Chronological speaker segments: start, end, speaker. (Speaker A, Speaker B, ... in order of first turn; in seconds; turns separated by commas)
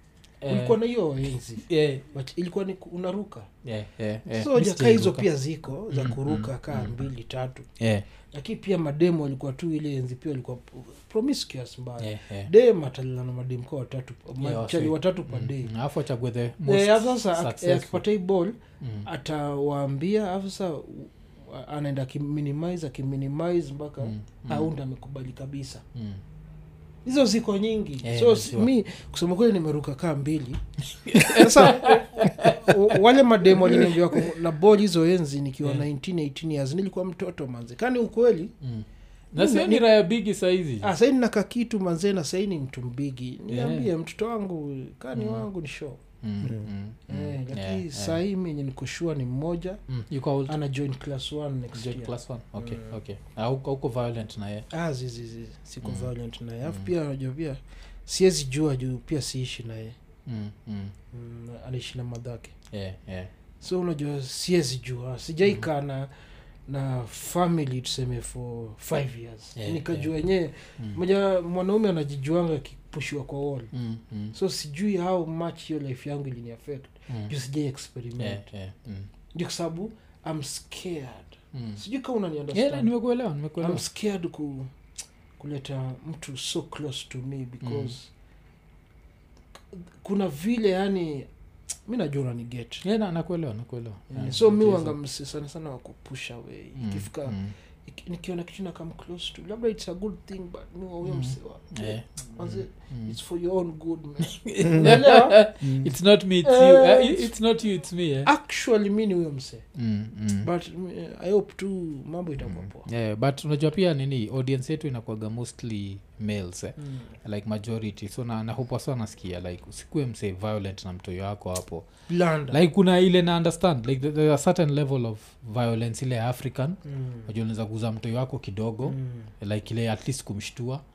Speaker A: 0.4-0.8, Speaker B: 0.5-3.5, Speaker A: 1.6-2.0, Speaker A: 3.6-5.3, Speaker B: 4.3-7.7, Speaker A: 5.9-7.0, Speaker A: 7.8-8.0, Speaker B: 8.3-15.7, Speaker A: 12.0-12.5, Speaker A: 14.4-18.0, Speaker B: 16.6-25.8, Speaker A: 18.8-19.1, Speaker A: 24.0-24.7, Speaker A: 25.9-26.2, Speaker B: 27.1-38.5, Speaker A: 28.0-28.7, Speaker A: 31.0-33.0, Speaker A: 33.6-34.0, Speaker A: 38.6-40.9, Speaker B: 39.4-39.9, Speaker B: 40.8-46.0, Speaker A: 43.5-43.9, Speaker A: 45.1-45.5, Speaker A: 46.2-48.2, Speaker B: 47.1-49.8, Speaker A: 49.9-50.5, Speaker B: 50.5-52.9, Speaker A: 51.7-54.7, Speaker B: 54.7-60.0, Speaker A: 55.8-56.1, Speaker A: 56.6-56.9, Speaker A: 60.2-60.9, Speaker B: 61.1-62.5, Speaker A: 62.7-63.3, Speaker B: 63.6-66.1, Speaker B: 66.7-73.7, Speaker A: 69.6-70.1, Speaker A: 73.7-74.3, Speaker B: 74.3-78.5, Speaker A: 78.2-79.1, Speaker B: 79.3-82.9, Speaker A: 81.5-81.8, Speaker A: 82.5-83.8, Speaker B: 83.6-84.7, Speaker B: 85.4-88.1, Speaker A: 87.6-87.9, Speaker B: 90.0-91.3, Speaker B: 91.8-92.8, Speaker A: 92.8-94.9, Speaker B: 94.1-105.4, Speaker A: 96.8-97.5, Speaker A: 101.0-103.2, Speaker A: 104.2-108.3, Speaker B: 106.4-107.3, Speaker B: 108.2-109.6, Speaker A: 109.7-110.5, Speaker B: 110.4-112.9, Speaker A: 112.4-121.8, Speaker B: 116.8-117.1, Speaker B: 122.1-122.6, Speaker A: 122.5-130.8, Speaker B: 126.8-127.3, Speaker B: 128.8-129.3